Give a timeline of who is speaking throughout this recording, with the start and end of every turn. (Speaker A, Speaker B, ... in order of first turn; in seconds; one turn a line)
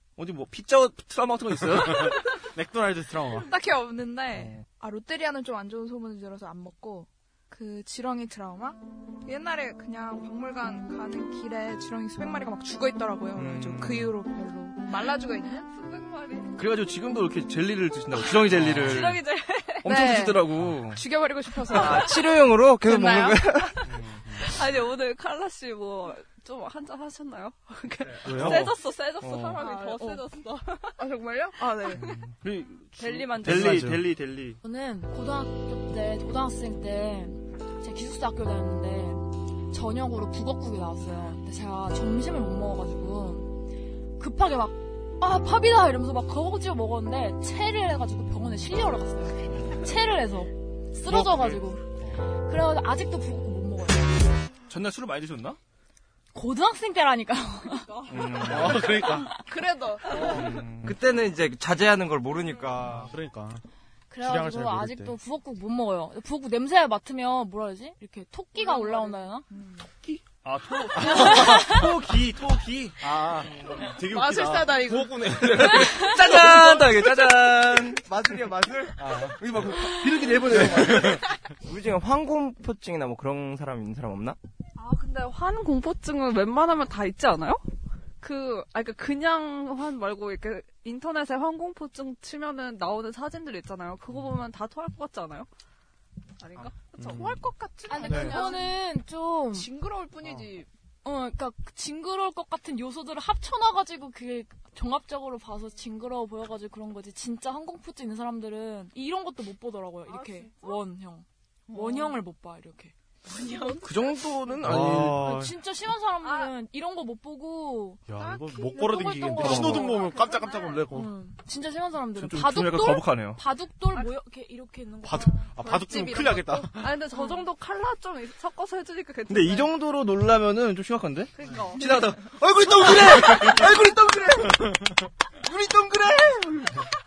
Speaker A: 0.2-2.4
Speaker B: 1.6-3.5
Speaker C: 3.3-15.7
Speaker A: 4.3-4.6
Speaker B: 13.3-14.1
Speaker A: 13.4-14.0
Speaker D: 15.6-16.6
Speaker A: 16.6-19.2
Speaker B: 18.5-19.1
Speaker C: 18.9-22.3
Speaker D: 18.9-20.4
Speaker A: 19.8-21.0
Speaker D: 21.7-31.1
Speaker E: 21.7-23.8
Speaker A: 23.8-24.2
Speaker B: 24.2-24.6
Speaker B: 28.2-28.7
Speaker A: 28.2-29.6
Speaker C: 29.6-30.2
Speaker C: 31.0-32.2
Speaker D: 31.7-32.0
Speaker A: 31.9-34.6
Speaker D: 33.0-33.9
Speaker B: 33.4-34.1
Speaker F: 34.6-43.5
Speaker F: 44.2-54.4
Speaker B: 51.0-52.2
Speaker A: 54.7-55.6
Speaker F: 56.3-58.0
Speaker D: 57.9-58.6
Speaker A: 58.1-59.0
Speaker B: 58.3-59.3
Speaker C: 59.3-60.5
Speaker A: 60.1-61.0
Speaker E: 60.8-63.1
Speaker B: 62.9-63.6
Speaker F: 64.1-69.5
Speaker B: 64.2-65.2
Speaker D: 68.6-69.1
Speaker C: 69.5-69.9
Speaker A: 70.0-73.9
Speaker B: 71.0-71.7
Speaker F: 71.0-71.7
Speaker B: 73.0-76.2
Speaker C: 74.0-75.3
Speaker A: 75.6-78.4
Speaker E: 76.3-79.0
Speaker B: 79.0-79.7
Speaker A: 79.0-81.2
Speaker B: 80.4-81.2
Speaker E: 81.6-84.4
Speaker D: 84.8-87.6
Speaker D: 88.2-95.5
Speaker D: 96.4-98.6
Speaker B: 96.9-97.5
Speaker C: 97.1-98.8
Speaker F: 97.9-99.7
Speaker B: 98.0-98.5
Speaker C: 99.5-100.7
Speaker F: 101.0-113.9
Speaker D: 110.0-110.8
Speaker D: 111.7-112.2
Speaker D: 113.4-113.9
Speaker A: 113.8-115.2
Speaker B: 114.6-115.6
Speaker F: 114.9-120.0
Speaker D: 116.2-116.5
Speaker B: 118.1-121.2
Speaker D: 119.3-120.9
Speaker A: 119.4-119.8
Speaker F: 120.9-125.9
Speaker A: 122.2-123.4
Speaker B: 125.0-127.0
Speaker D: 125.7-129.7
Speaker A: 129.3-136.9
Speaker D: 131.3-132.1
Speaker B: 132.7-133.7
Speaker B: 134.6-134.9